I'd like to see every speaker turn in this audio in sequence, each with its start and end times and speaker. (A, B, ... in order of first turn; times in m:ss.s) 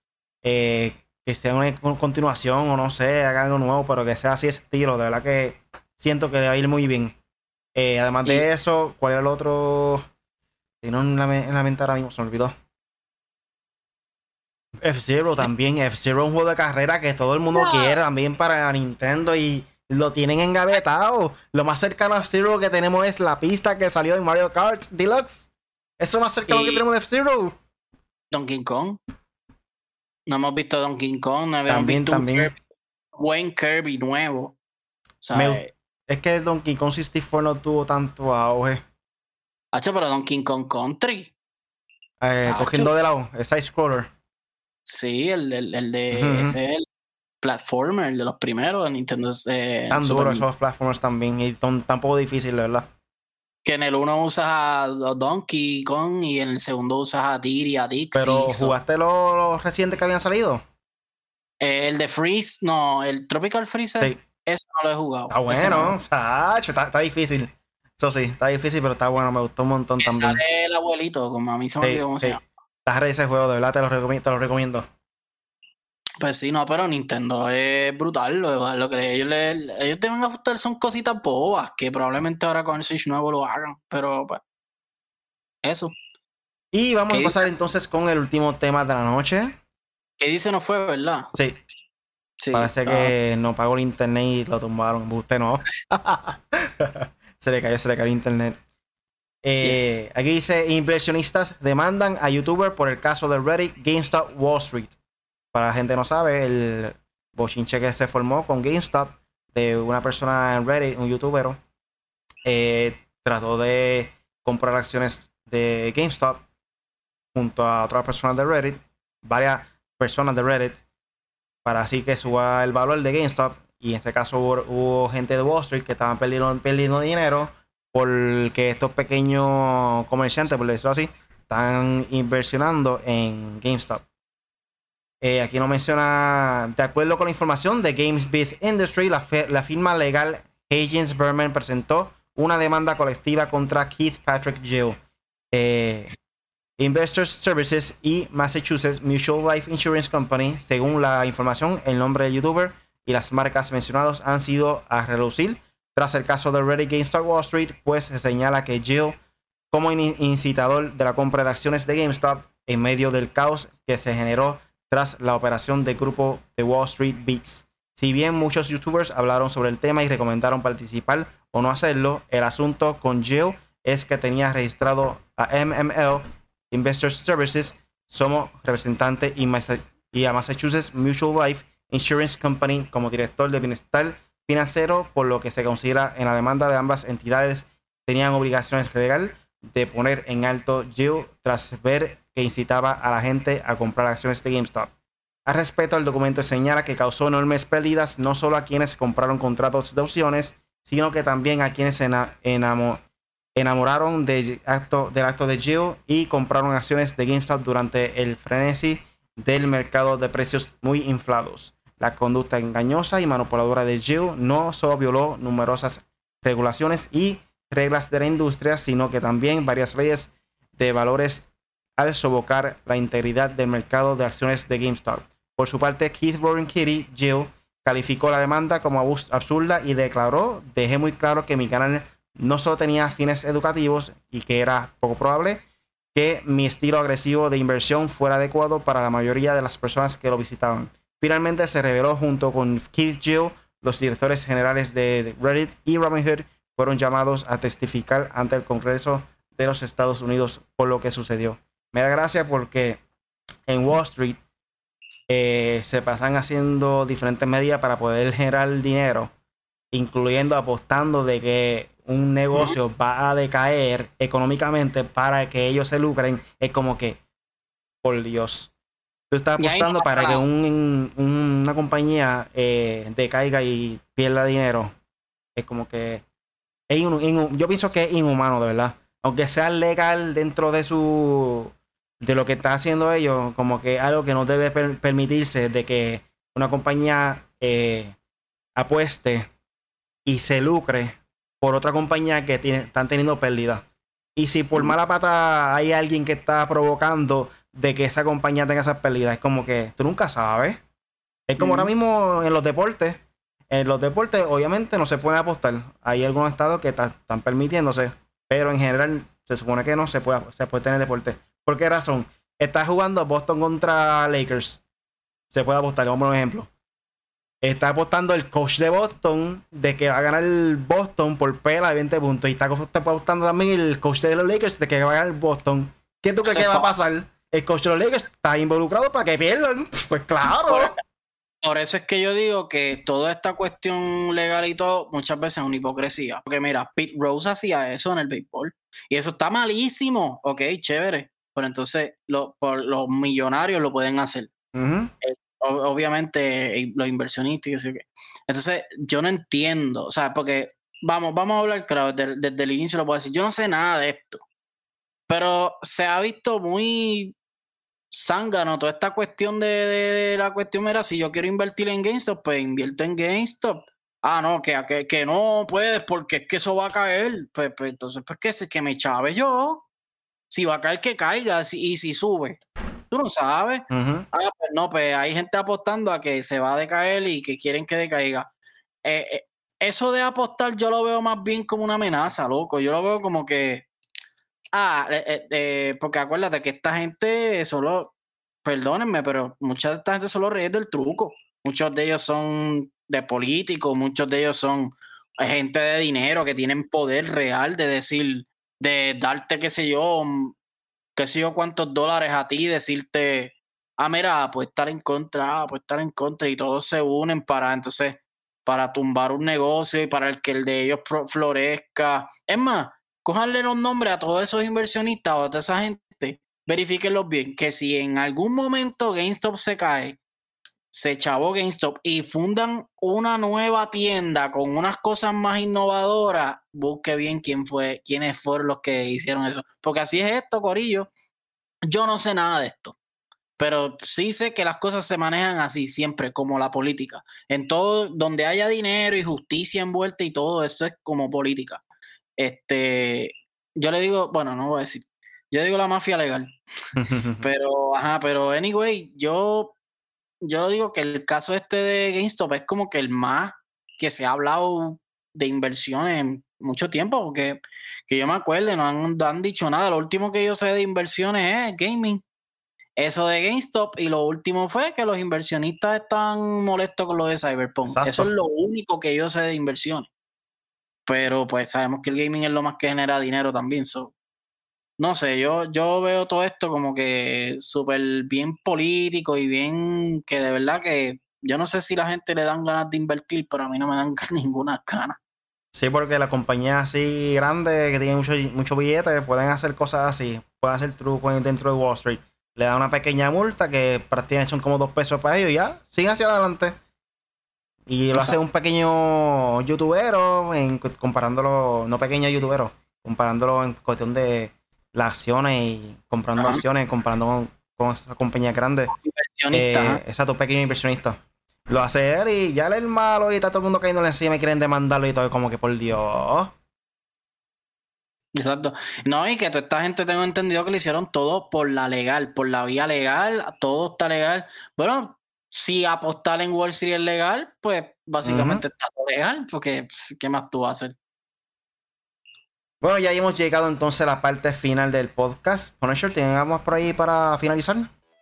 0:00.4-0:07.2 A
0:07.8-0:10.0 A
0:10.8-0:12.5 A
0:14.8-0:25.5 A
0:17.5-0:18.0 B
0:26.0-0:27.6 A
0:26.5-0:26.8 B
0:28.3-0:29.0 B
0:30.3-0:32.6 B
0:31.7-0:32.5 A
0:33.2-0:34.6 B
0:35.2-0:35.7 B
0:35.3-0:38.8 A
0:39.7-0:41.3 B
0:42.2-0:44.1 A
0:42.4-0:42.9 B
0:44.8-0:46.8 B
0:46.1-0:46.6 A
0:47.4-0:50.4 B
0:49.9-0:52.9 A
0:53.6-0:58.7 B
0:58.1-1:00.6 A
1:01.6-1:06.0 B
1:05.3-1:10.4 A
1:10.0-1:12.4 B
1:11.8-1:14.9 A
1:16.2-1:24.4 B
1:25.6-1:25.9 B
1:26.7-1:29.6 A
1:27.1-1:27.4 B
1:30.2-1:31.3 B
1:31.3-1:31.6 A
1:32.4-1:33.1 B
1:32.5-1:38.6 A
1:39.4-1:44.9 A
1:39.6-1:40.0 B
1:45.5-1:51.6 A
1:52.4-1:56.4 A
1:57.3-2:00.8 A
2:01.6-2:14.0 A
2:15.2-2:25.0 A
2:25.5-2:26.1 A
2:26.8-2:39.1 A
2:39.7-3:14.9 A
3:15.4-3:23.0 A
3:23.6-3:41.4 A
3:42.0-3:55.6 A
3:56.1-4:13.0 A
4:13.7-4:14.4 A
4:15.3-4:19.3 A
4:19.9-4:27.2 A
4:28.0-4:28.7 A
4:29.3-4:34.9 A
4:29.6-4:30.4 B
4:35.6-4:36.2 A
4:36.9-4:48.2 A
4:48.8-4:49.5 A
4:50.2-4:53.8 A
4:54.4-5:00.8 A
5:01.5-5:14.8 A
5:01.6-5:01.9 B
5:15.5-5:16.7 A
5:17.6-5:30.9 A
5:26.4-5:26.9 B
5:30.7-5:31.0 B
5:31.6-5:44.5 B
5:44.7-5:45.1 A
5:45.2-5:54.4 B
5:55.3-5:57.4 B
5:58.1-6:09.9 B
6:10.5-6:18.5 B
6:13.9-6:14.3 A
6:19.0-6:23.9 B
6:24.7-6:28.1 B
6:28.6-6:40.6 B
6:41.2-7:00.2 B
7:00.9-7:11.1 B
7:11.9-7:13.0 B
7:13.6-7:21.8 B
7:22.4-7:26.6 B
7:27.0-7:27.4 A
7:27.4-7:29.7 B
7:30.4-7:42.2 B
7:43.0-7:50.1 B
7:47.9-7:48.3 A
7:51.1-7:54.1 B
7:55.0-8:05.2 B
8:05.7-8:16.7 A
8:17.9-8:28.9 A
8:28.9-8:30.0 B
8:29.5-8:36.5 A
8:38.3-8:50.9 B
8:48.2-8:48.6 A
8:52.8-8:57.9 A